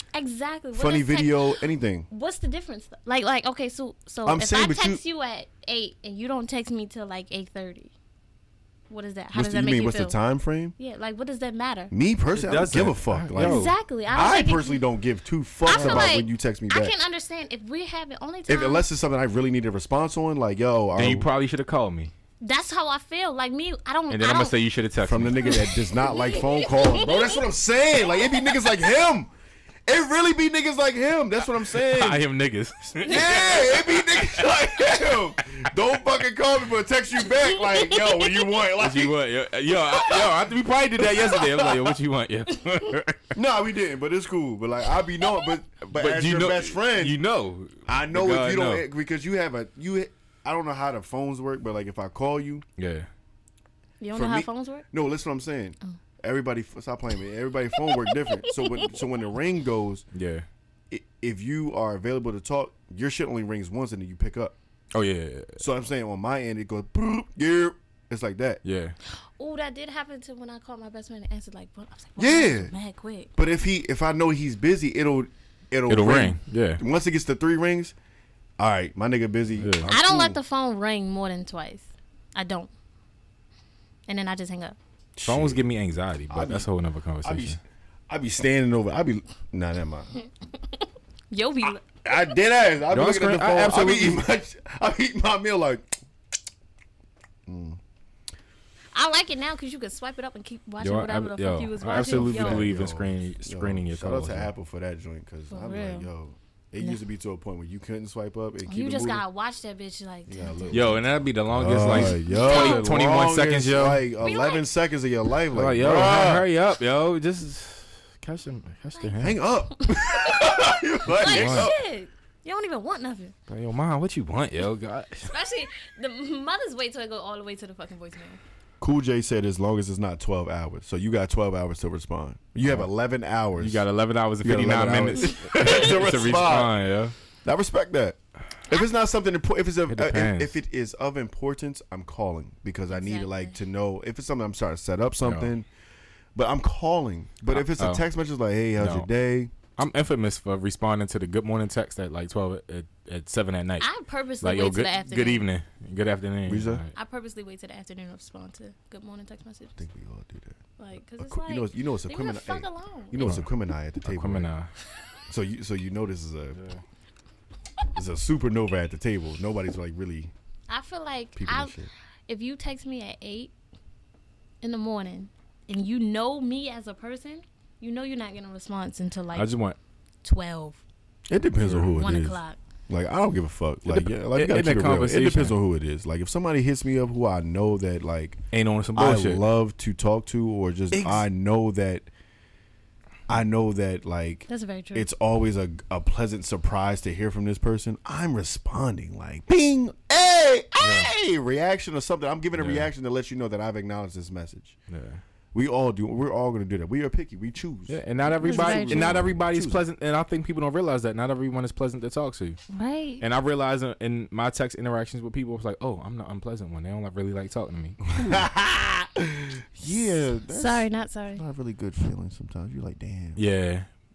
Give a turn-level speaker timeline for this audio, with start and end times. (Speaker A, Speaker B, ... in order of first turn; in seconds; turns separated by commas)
Speaker A: 0.1-1.6, Speaker B: 0.7-2.1, Speaker A: 2.1-7.9, Speaker B: 4.2-5.0, Speaker A: 8.9-10.2, Speaker B: 9.3-10.7, Speaker A: 10.8-11.9, Speaker B: 11.9-16.9, Speaker C: 12.3-13.7, Speaker A: 13.4-14.8, Speaker A: 15.6-18.9, Speaker C: 15.7-16.1, Speaker B: 18.5-21.3, Speaker C: 20.9-22.1, Speaker A: 22.4-24.5, Speaker C: 24.1-25.6, Speaker B: 25.0-29.3, Speaker A: 25.4-27.4, Speaker B: 29.9-32.2, Speaker C: 31.8-34.6, Speaker B: 33.0-39.2, Speaker A: 33.0-33.5, Speaker A: 37.6-38.2, Speaker C: 38.8-43.3, Speaker B: 39.9-40.2, Speaker B: 41.0-41.9, Speaker B: 43.3-47.2, Speaker C: 45.9-48.8, Speaker B: 47.9-52.6, Speaker C: 52.8-53.1, Speaker A: 54.0-54.9, Speaker B: 54.1-60.0, Speaker A: 58.0-58.9, Speaker C: 60.1-60.5, Speaker B: 60.9-64.5, Speaker C: 64.9-65.6, Speaker B: 65.6-68.6, Speaker C: 68.6-69.0, Speaker A: 69.4-73.3, Speaker B: 72.2-72.7, Speaker B: 73.3-77.9, Speaker C: 75.9-76.8, Speaker B: 78.6-80.4, Speaker C: 79.6-79.9, Speaker A: 79.9-82.7, Speaker A: 84.1-84.8, Speaker B: 85.1-85.6, Speaker C: 85.2-87.6, Speaker B: 86.3-86.7, Speaker B: 87.2-87.6, Speaker B: 88.1-90.2, Speaker A: 90.7-91.8, Speaker B: 91.9-95.9, Speaker C: 92.9-94.2, Speaker B: 97.5-97.8, Speaker A: 98.9-102.7, Speaker C: 100.8-104.5, Speaker B: 101.9-109.2, Speaker A: 105.5-106.1, Speaker A: 108.7-110.9, Speaker B: 110.3-116.5, Speaker C: 110.7-114.0, Speaker A: 111.9-112.9, Speaker A: 114.2-114.7, Speaker C: 115.5-119.4, Speaker A: 119.0-119.3, Speaker B: 119.2-121.8, Speaker A: 119.8-123.3, Speaker C: 121.2-121.7, Speaker C: 123.5-125.3, Speaker A: 125.2-128.4, Speaker B: 128.8-133.8, Speaker C: 133.6-137.1, Speaker B: 134.4-136.8, Speaker B: 137.4-145.7, Speaker C: 139.9-140.6, Speaker A: 142.9-143.6, Speaker C: 145.2-145.5, Speaker B: 146.3-149.5, Speaker C: 147.5-148.0, Speaker C: 148.8-149.1, Speaker C: 149.8-153.9, Speaker A: 153.8-155.5, Speaker C: 154.4-156.9, Speaker B: 156.4-156.8, Speaker A: 156.9-159.8, Speaker B: 159.8-160.6, Speaker A: 160.8-163.2, Speaker B: 161.2-164.5, Speaker C: 163.2-163.5, Speaker C: 164.0-164.7, Speaker B: 165.3-166.6, Speaker C: 166.5-166.8, Speaker B: 167.9-170.3, Speaker A: 170.7-171.7, Speaker B: 171.3-171.9, Speaker A: 172.3-173.5, Speaker A: 174.6-179.5, Speaker C: 179.3-179.8, Speaker A: 180.2-180.8, Speaker B: 181.3-188.4, Speaker C: 181.6-181.9, Speaker A: 182.0-182.6, Speaker C: 183.9-185.5, Speaker C: 188.5-189.4, Speaker B: 188.9-192.1, Speaker C: 190.9-191.2, Speaker B: 193.3-204.8, Speaker A: 194.5-195.1, Speaker C: 200.8-201.1, Speaker C: 202.6-202.9, Speaker C: 204.9-205.2, Speaker B: 205.5-209.8, Speaker C: 207.9-212.6, Speaker A: 208.4-209.2, Speaker A: 212.7-213.2, Speaker C: 213.2-218.4, Speaker B: 218.1-223.4, Speaker A: 220.5-221.4, Speaker C: 223.3-223.9